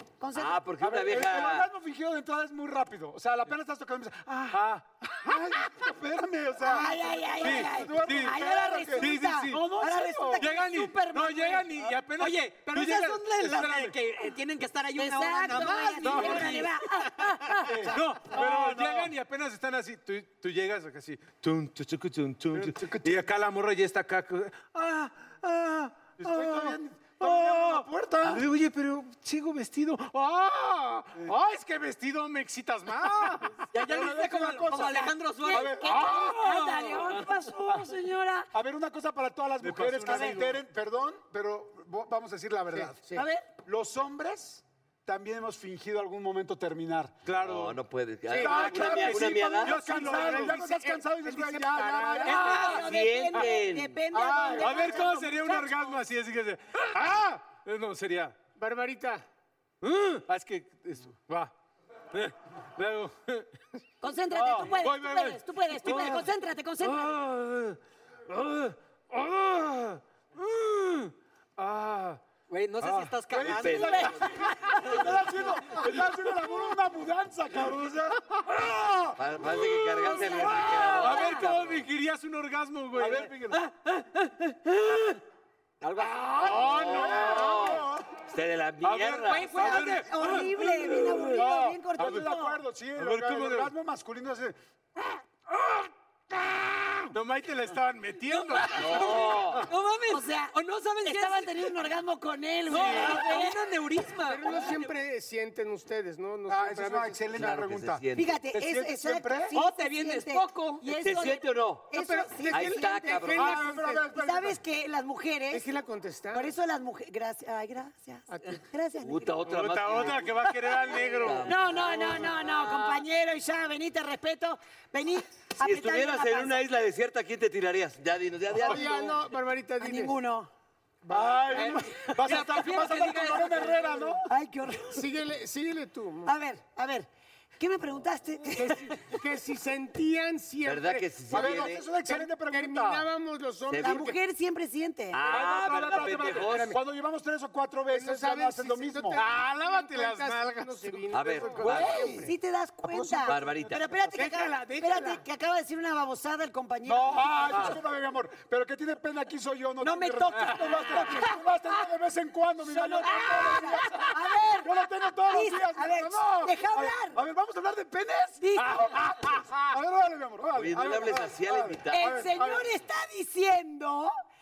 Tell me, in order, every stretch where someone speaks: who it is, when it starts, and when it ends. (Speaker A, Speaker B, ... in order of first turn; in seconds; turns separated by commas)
Speaker A: 0.2-0.6, Speaker B: 0.3-1.7, Speaker C: 0.8-10.4, Speaker D: 4.5-4.8, Speaker A: 6.6-11.8, Speaker D: 7.4-8.4, Speaker D: 8.9-9.7, Speaker D: 10.4-14.0, Speaker E: 12.1-16.8, Speaker A: 15.0-17.9, Speaker D: 16.0-16.6, Speaker C: 17.6-19.1, Speaker D: 17.9-33.6, Speaker C: 22.5-23.2, Speaker C: 26.2-28.4, Speaker E: 33.7-35.8, Speaker C: 33.7-36.2, Speaker A: 35.5-38.5, Speaker D: 35.9-36.3, Speaker E: 36.4-36.9, Speaker D: 37.0-37.2, Speaker C: 37.6-37.9, Speaker C: 38.5-43.0, Speaker D: 39.6-40.6, Speaker A: 40.0-40.4, Speaker F: 42.7-43.2, Speaker A: 43.1-43.4, Speaker C: 43.6-47.2, Speaker D: 47.2-47.8, Speaker B: 47.4-49.8, Speaker F: 48.3-48.7, Speaker C: 48.3-52.5, Speaker D: 48.4-50.6, Speaker F: 49.9-52.4, Speaker E: 52.3-52.9, Speaker A: 52.3-56.0, Speaker B: 52.8-54.0, Speaker C: 54.1-55.1, Speaker D: 54.3-58.4, Speaker F: 58.6-59.2, Speaker D: 59.8-61.5, Speaker D: 62.1-63.5, Speaker A: 64.0-67.1, Speaker C: 64.3-64.7, Speaker D: 64.6-66.3, Speaker D: 66.8-67.8, Speaker D: 68.3-72.2, Speaker E: 72.5-75.0, Speaker D: 72.8-73.7, Speaker C: 73.3-79.0, Speaker B: 73.6-74.1, Speaker B: 79.2-81.8, Speaker A: 80.2-81.5, Speaker E: 80.2-81.2, Speaker D: 80.9-83.6, Speaker C: 83.0-83.6, Speaker E: 85.8-86.9, Speaker B: 86.4-89.6, Speaker D: 86.5-87.3, Speaker C: 86.8-88.0, Speaker D: 88.8-91.5, Speaker E: 89.3-90.0, Speaker A: 89.5-92.6, Speaker C: 91.3-94.6, Speaker D: 92.0-92.2, Speaker D: 93.0-93.7, Speaker D: 97.1-99.6, Speaker B: 98.8-99.6, Speaker E: 98.8-101.8, Speaker A: 100.1-103.6, Speaker E: 102.7-104.9, Speaker F: 104.2-107.4, Speaker C: 106.5-109.5, Speaker B: 107.3-108.4, Speaker A: 108.2-115.7, Speaker E: 109.5-111.0, Speaker B: 111.0-111.9, Speaker F: 111.9-114.1, Speaker B: 112.5-113.7, Speaker C: 113.3-114.6, Speaker F: 115.5-116.5, Speaker A: 116.3-119.4, Speaker F: 118.3-118.6, Speaker B: 119.0-122.5, Speaker D: 119.5-121.5, Speaker A: 120.7-126.6, Speaker E: 122.6-123.0, Speaker B: 125.6-129.2, Speaker F: 128.6-130.1, Speaker A: 129.8-130.5, Speaker C: 131.1-134.3, Speaker F: 131.1-131.6, Speaker E: 131.5-134.1, Speaker A: 134.3-135.1, Speaker F: 134.9-136.3, Speaker A: 136.2-139.1, Speaker F: 138.6-144.2, Speaker B: 140.6-141.9, Speaker C: 141.3-143.1, Speaker B: 143.7-144.1, Speaker A: 143.7-145.2, Speaker B: 145.1-146.8, Speaker C: 145.3-149.2, Speaker F: 147.9-152.3, Speaker D: 149.1-151.1, Speaker B: 151.1-152.1, Speaker C: 151.4-152.3, Speaker A: 151.6-157.7, Speaker C: 152.8-153.8, Speaker B: 153.2-153.9, Speaker F: 154.1-155.2, Speaker C: 156.8-172.7, Speaker D: 157.5-157.8, Speaker A: 159.8-161.4, Speaker A: 162.6-167.2, Speaker A: 168.4-169.1, Speaker B: 170.6-172.2, Speaker A: 171.9-174.1